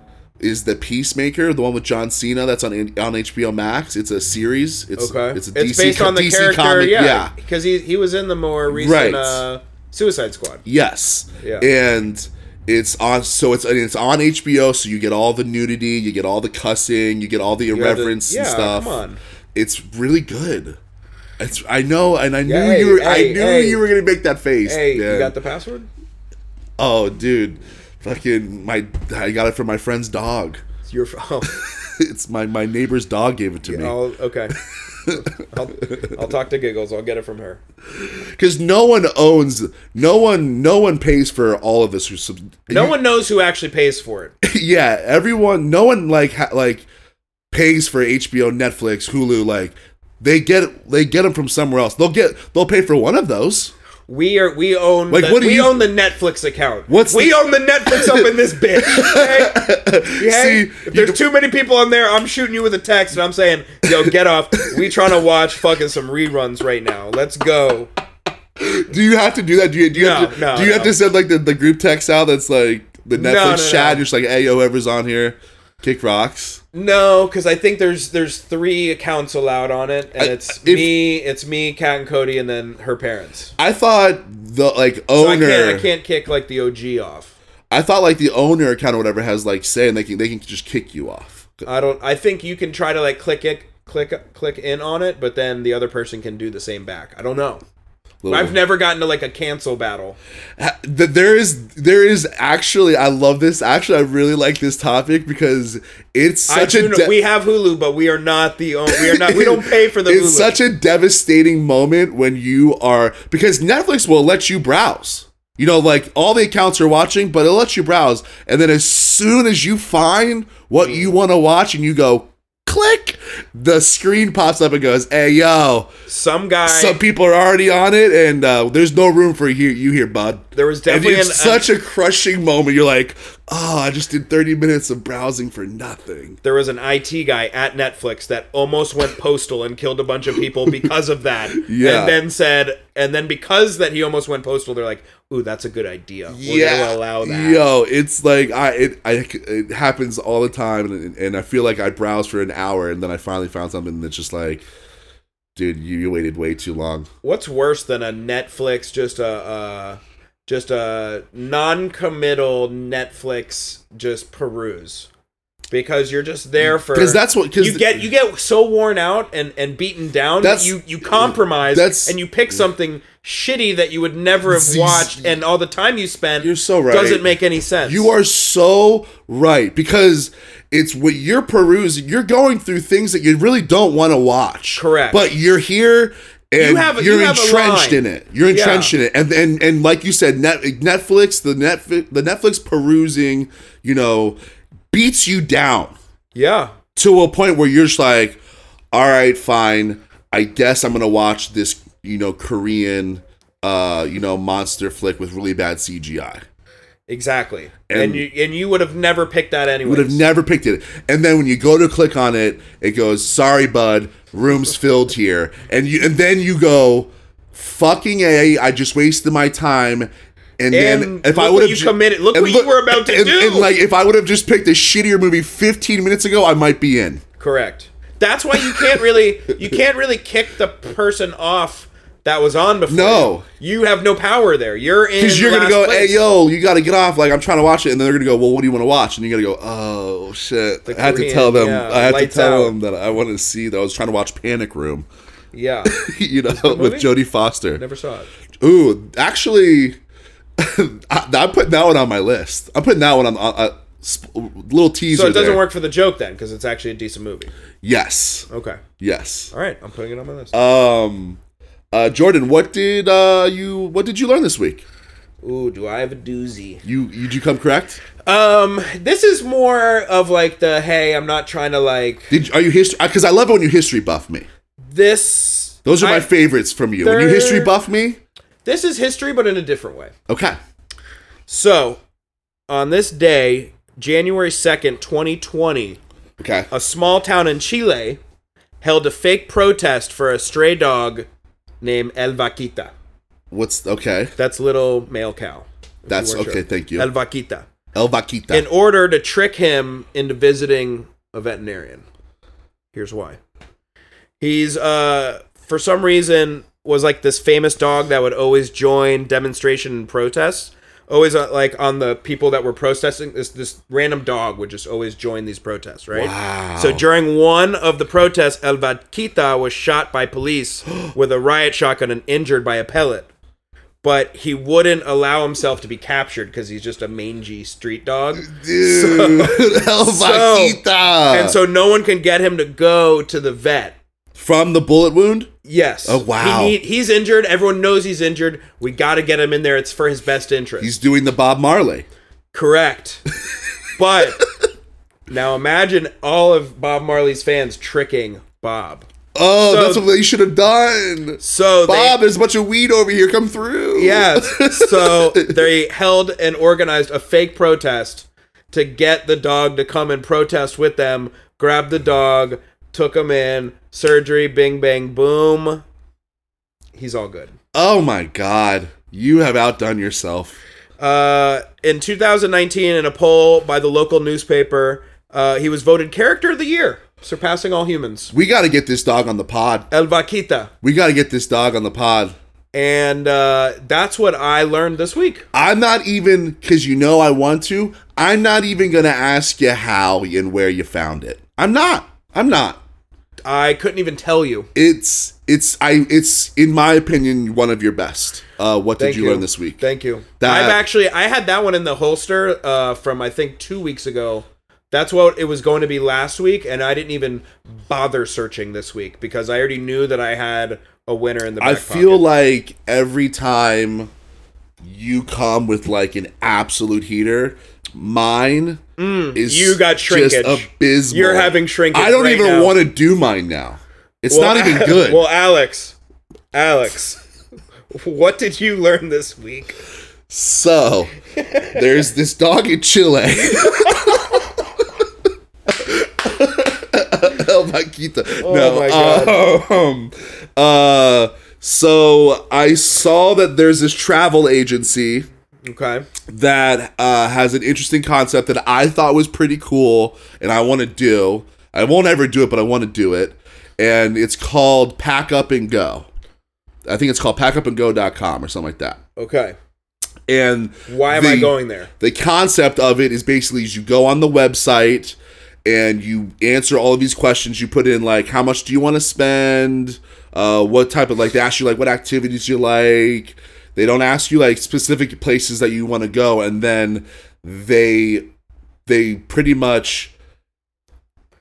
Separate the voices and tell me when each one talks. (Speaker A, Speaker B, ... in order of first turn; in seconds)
Speaker A: 0.4-7.3, 8.7-9.4, 10.6-19.0, 19.5-20.8, 21.4-25.3, 26.8-30.6, 31.4-33.9, 35.0-35.3, 37.9-42.9, 44.4-46.9, 47.5-53.7, 55.1-55.9, 56.9-61.2, 64.7-65.0, 68.6-76.6, 80.2-81.0, 83.6-85.9, 87.7-91.6, 98.2-98.5, 100.6-107.1, 108.9-125.9, 126.7-136.4, 141.5-142.2, 146.3-154.6, 155.6-157.1, 166.6-168.0, 170.4-172.2, 174.4-175.3, 176.4-177.3, 177.8-194.4, 194.9-195.9, 196.9-198.4, 198.9-206.4, 207.9-208.3, 209.8-227.2, 228.5-229.0, 232.9-233.4, 235.2-245.1, 245.8-247.8, 248.6-250.0, 250.6-255.6, 257.8-258.5, 259.0-259.5, 260.5-261.4, 261.9-264.8, 266.8-268.0, 272.3-274.4, 275.8-278.2, 280.3-280.6, 286.4-286.7, 293.5-294.3, 296.1-297.1, 297.9-298.7, 316.1-317.0, 328.4-331.6, 334.3-335.5, 336.0-336.8, 340.8-342.0, 349.3-355.6, 367.7-370.6, 378.3-379.9, 380.8-382.3, 385.5-392.8, 394.7-399.8, 400.4-400.8, 411.6-414.1, 414.8-418.8, 419.3-425.2, 430.3-431.1, 431.7-434.6, 435.7-445.3, 446.3-456.1, 456.8-459.0, 460.3-478.3, 478.9-480.1
Speaker B: 5.0-10.6, 11.4-11.7, 17.7-19.2, 22.4-23.8, 24.6-25.9, 30.9-31.6, 33.6-37.6, 42.7-44.3, 54.1-67.9, 69.9-71.0, 73.1-74.0, 76.7-83.5, 85.2-87.3, 91.6-97.6, 98.3-100.2, 106.5-110.6, 120.8-121.1, 126.1-127.0, 130.5-131.7, 136.4-147.7, 157.2-165.1, 165.7-178.1, 184.7-185.3, 186.6-188.9, 196.3-196.7, 207.1-210.2, 220.7-223.7, 227.4-236.2, 240.8-242.7, 245.5-247.1, 247.7-248.3, 255.1-257.5, 258.5-258.8, 259.5-260.5, 265.4-266.8, 268.2-272.3, 274.9-276.3, 277.0-277.7, 278.6-280.1, 281.5-282.0, 282.7-286.0, 286.7-288.2, 288.8-291.3, 291.8-292.9, 294.4-297.7, 298.5-302.0, 302.9-303.4, 304.4-323.3, 324.0-334.0, 335.6-340.9, 342.5-343.2, 344.0-344.4, 345.3-349.1, 349.6-350.0, 351.4-352.2, 353.9-365.8, 366.9-367.5, 371.0-378.3, 379.9-380.7, 382.7-385.4, 393.4-394.7, 399.0-412.3, 419.0-422.8, 424.3-425.9, 426.5-427.2, 427.9-429.8, 431.4-431.8, 433.5-434.0, 438.4-439.4, 445.6-446.1, 459.2-459.5, 460.9-461.9